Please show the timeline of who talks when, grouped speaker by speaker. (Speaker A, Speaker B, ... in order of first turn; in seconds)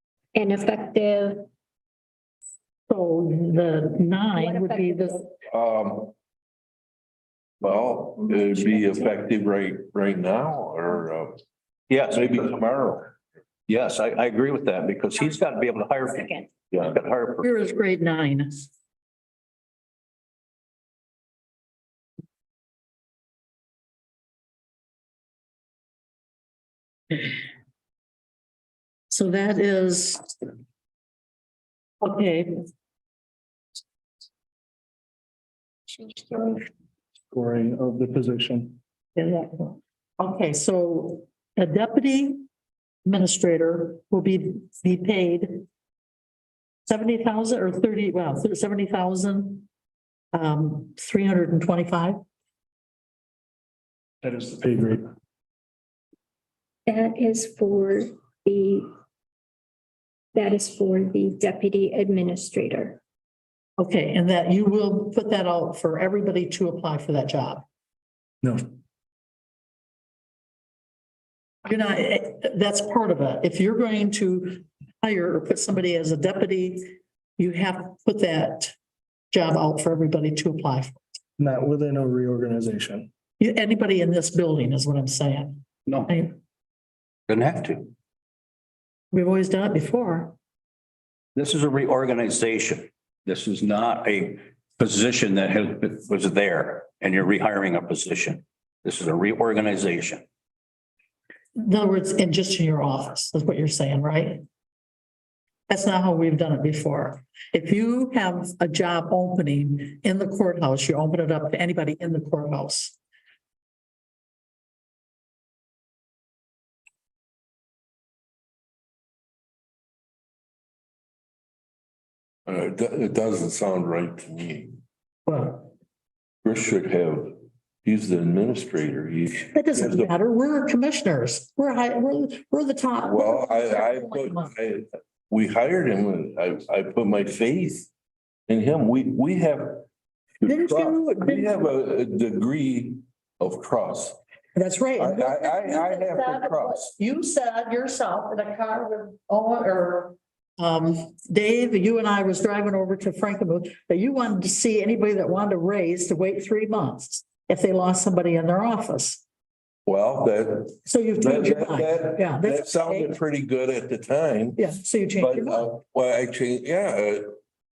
Speaker A: 0.3-1.5, 4.3-5.3, 8.3-9.1, 36.1-36.5, 56.9-58.9, 60.3-63.0
Speaker B: 2.9-5.2, 17.4-18.7, 29.1-30.3, 32.0-32.6, 39.1-42.4, 43.0-45.6, 46.9-49.7, 50.3-52.2, 63.8-67.6, 71.6-78.7, 79.3-81.0, 83.4-86.3, 89.1-90.3, 101.5-104.4, 105.7-113.0, 125.3-125.7, 129.5-134.5, 140.4-141.7, 144.6-159.2, 160.8-163.2, 164.6-165.7
Speaker C: 5.5-6.1, 7.6-11.4, 12.1-13.1, 122.5-124.8, 126.4-130.1, 133.0-137.9, 138.5-139.8, 140.4-144.2, 145.0-146.9, 159.8-164.6, 165.2-167.3
Speaker D: 11.9-12.5, 13.7-17.5, 87.3-87.9, 91.3-100.2
Speaker E: 37.3-38.8, 54.2-55.1, 68.4-68.7, 81.4-83.1